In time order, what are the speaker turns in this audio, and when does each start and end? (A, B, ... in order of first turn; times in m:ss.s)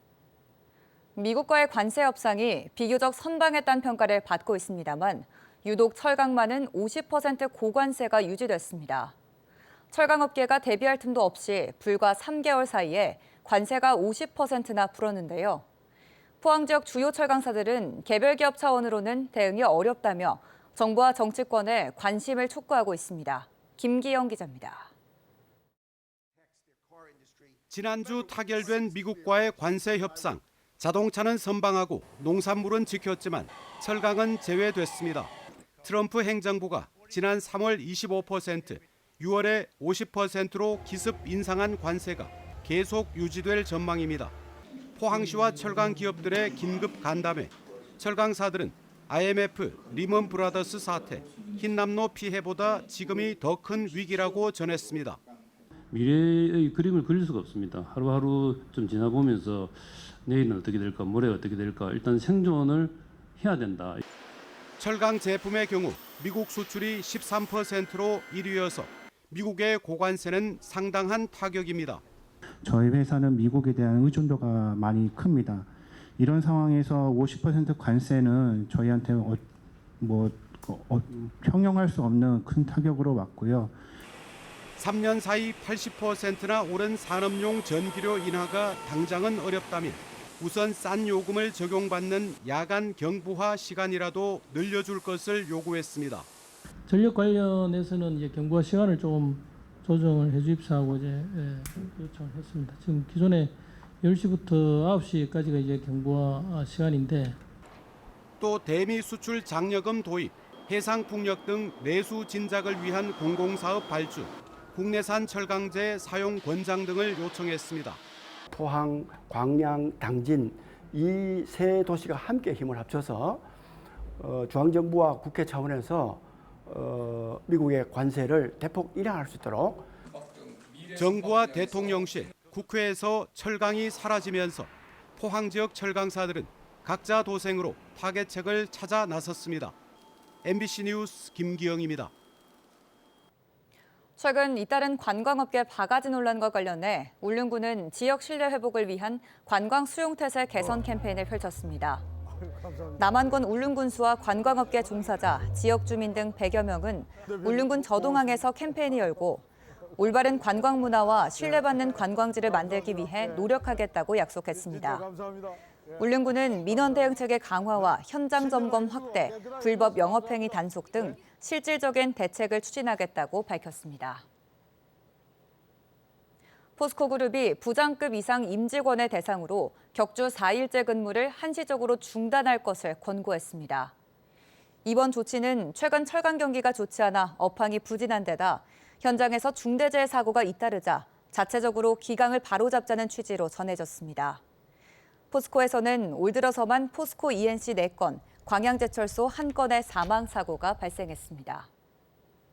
0:01.2-0:09.1 A
0:09.9-0:15.6 A
0:16.4-0:24.9 A
0:27.7-0:35.3 B
0:35.8-0:44.3 B
0:45.0-0:55.2 B
0:55.9-1:04.0 C
1:04.8-1:12.0 B
1:12.6-1:19.4 D
1:20.0-1:23.7 D
1:24.8-1:36.3 B
1:36.9-1:47.4 E
1:48.4-1:58.0 B
1:58.5-2:03.4 F
2:04.2-2:09.9 F
2:10.9-2:19.7 B
2:20.4-2:22.1 B
2:24.2-2:32.0 A
2:33.0-2:39.4 A
2:40.0-2:45.0 A
2:46.0-2:54.2 A
2:56.8-3:03.9 A
3:04.8-3:14.4 A
3:15.3-3:21.7 A